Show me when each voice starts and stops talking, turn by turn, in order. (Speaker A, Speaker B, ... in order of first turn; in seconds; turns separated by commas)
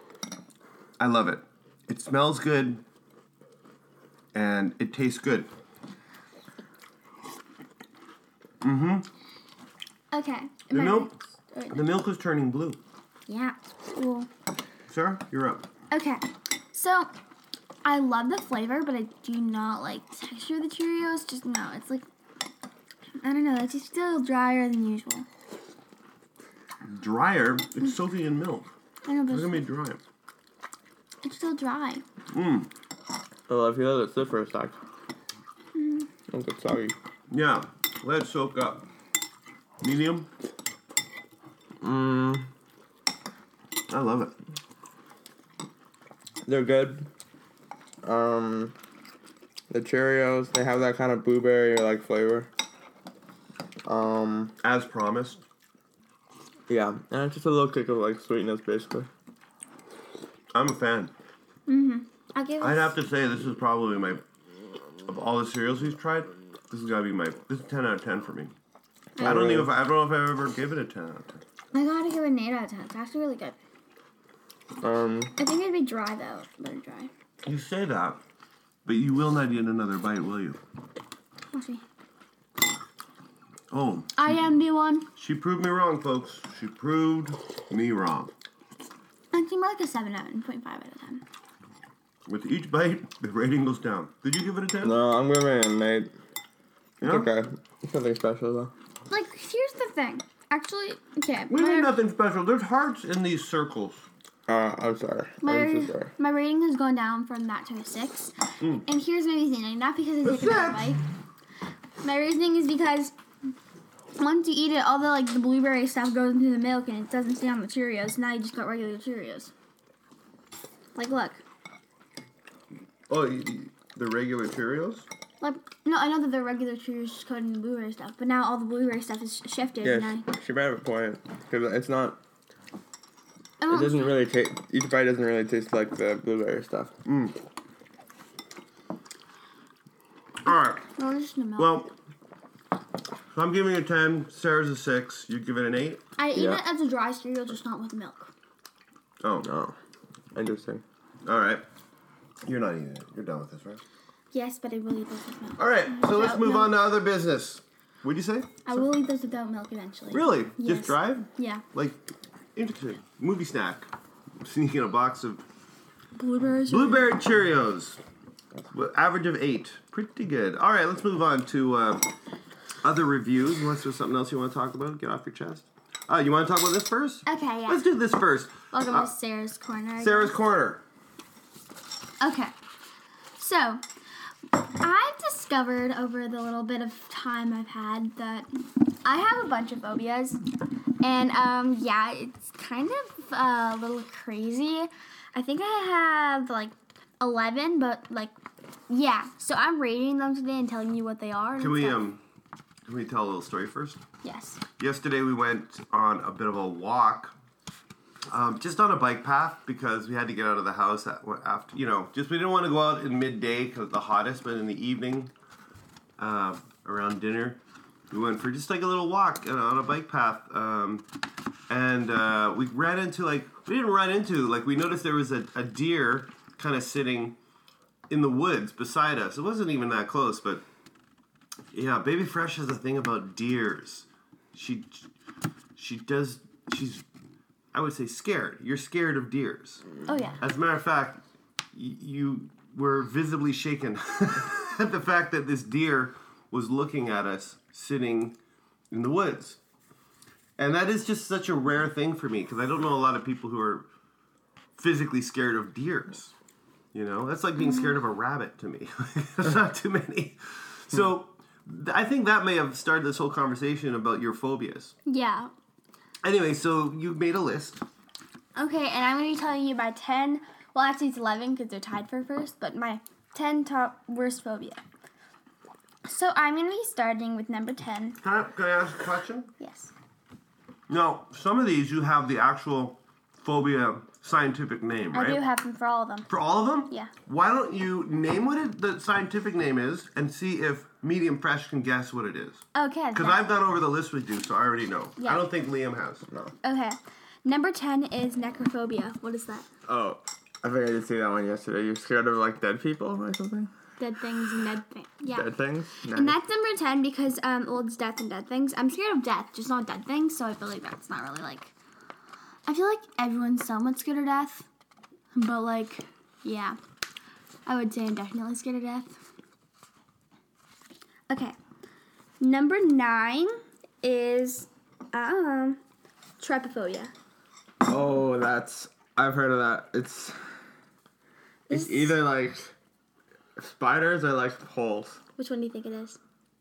Speaker A: 1.0-2.8, Speaker A: 4.3-5.5, Speaker A: 8.6-9.1, Speaker B: 10.1-11.9, Speaker A: 10.7-11.1, Speaker A: 11.7-12.8, Speaker B: 13.3-14.3, Speaker A: 14.9-15.7, Speaker B: 15.9-17.1, Speaker B: 17.9-22.1, Speaker B: 23.2-25.3, Speaker A: 26.9-28.7, Speaker B: 29.1-29.6, Speaker A: 29.3-30.0, Speaker B: 31.2-32.0, Speaker A: 32.3-32.7, Speaker C: 33.5-34.8, Speaker B: 35.8-36.1, Speaker C: 36.3-37.0, Speaker A: 37.3-38.9, Speaker A: 39.8-40.3, Speaker C: 41.8-42.5, Speaker A: 43.9-44.3, Speaker C: 46.5-47.1, Speaker C: 48.0-48.8, Speaker C: 49.7-52.5, Speaker C: 53.9-54.5, Speaker A: 54.6-55.4, Speaker C: 56.7-59.1, Speaker A: 60.5-61.1, Speaker B: 61.7-62.9, Speaker A: 62.6-64.2, Speaker A: 65.1-68.5, Speaker A: 69.2-71.4, Speaker C: 69.2-69.7, Speaker B: 71.7-73.6, Speaker C: 74.8-75.3, Speaker B: 75.4-77.1, Speaker A: 77.5-78.2, Speaker A: 78.9-80.6, Speaker B: 81.5-81.8, Speaker A: 83.7-84.2, Speaker B: 84.2-85.1, Speaker A: 85.2-88.3, Speaker B: 89.3-91.2, Speaker A: 92.3-95.0, Speaker C: 94.8-96.1, Speaker A: 97.0-97.3, Speaker C: 97.0-98.7, Speaker B: 99.1-101.9, Speaker A: 101.5-104.1, Speaker C: 104.5-106.1, Speaker B: 105.4-108.3, Speaker B: 108.8-111.0, Speaker A: 110.2-110.9, Speaker B: 112.0-113.1, Speaker B: 114.2-119.5, Speaker B: 121.0-121.4, Speaker A: 123.1-125.1, Speaker B: 125.4-130.2, Speaker C: 129.8-132.2, Speaker B: 133.6-134.1, Speaker C: 133.7-136.9, Speaker A: 137.1-137.3, Speaker A: 140.4-140.8, Speaker B: 141.0-141.8, Speaker A: 141.6-141.9, Speaker A: 143.3-146.0, Speaker B: 146.2-148.3, Speaker C: 146.3-146.6, Speaker A: 149.2-149.5, Speaker C: 149.4-149.8, Speaker C: 150.3-150.8, Speaker A: 151.2-151.6, Speaker A: 152.4-153.8, Speaker B: 154.3-156.8, Speaker A: 155.6-158.8, Speaker B: 158.7-161.6, Speaker A: 160.1-162.0, Speaker A: 162.6-163.9, Speaker A: 164.4-165.4, Speaker B: 166.2-167.2, Speaker A: 166.7-168.0, Speaker A: 168.7-172.1, Speaker A: 172.8-179.1, Speaker B: 177.3-177.8, Speaker B: 178.7-180.3, Speaker A: 180.0-180.8, Speaker B: 182.2-182.5, Speaker B: 183.4-183.8, Speaker B: 184.5-190.4, Speaker B: 191.0-198.3, Speaker B: 198.9-202.0, Speaker A: 201.6-202.2, Speaker A: 202.9-204.0, Speaker B: 204.2-204.6, Speaker A: 204.8-207.3, Speaker A: 208.3-215.3, Speaker A: 216.2-217.6, Speaker A: 218.1-221.1, Speaker A: 221.7-227.4, Speaker A: 228.1-230.6, Speaker A: 231.7-235.1, Speaker A: 235.8-237.0, Speaker A: 237.7-239.8, Speaker B: 240.1-240.4, Speaker A: 240.4-241.2, Speaker A: 241.7-248.4, Speaker A: 248.9-249.6, Speaker A: 250.6-253.9, Speaker A: 254.8-256.3, Speaker A: 256.9-264.9, Speaker B: 257.6-258.0, Speaker B: 265.1-265.5, Speaker A: 266.2-267.8, Speaker B: 268.6-274.8, Speaker B: 276.1-278.2, Speaker A: 278.2-279.5, Speaker B: 279.6-279.9, Speaker A: 280.9-285.4, Speaker B: 285.1-286.3, Speaker A: 286.3-296.3, Speaker B: 292.8-293.4, Speaker B: 295.2-295.4, Speaker B: 296.6-299.7, Speaker C: 299.9-303.7, Speaker B: 304.0-305.5, Speaker C: 305.3-306.4, Speaker B: 306.1-311.7, Speaker B: 312.7-314.7, Speaker B: 315.4-316.8, Speaker B: 317.7-319.2, Speaker B: 321.3-321.6, Speaker B: 322.4-325.8, Speaker B: 326.4-327.1, Speaker C: 327.8-330.5, Speaker B: 331.7-332.2, Speaker C: 331.7-332.7, Speaker C: 333.6-335.2, Speaker B: 335.4-336.2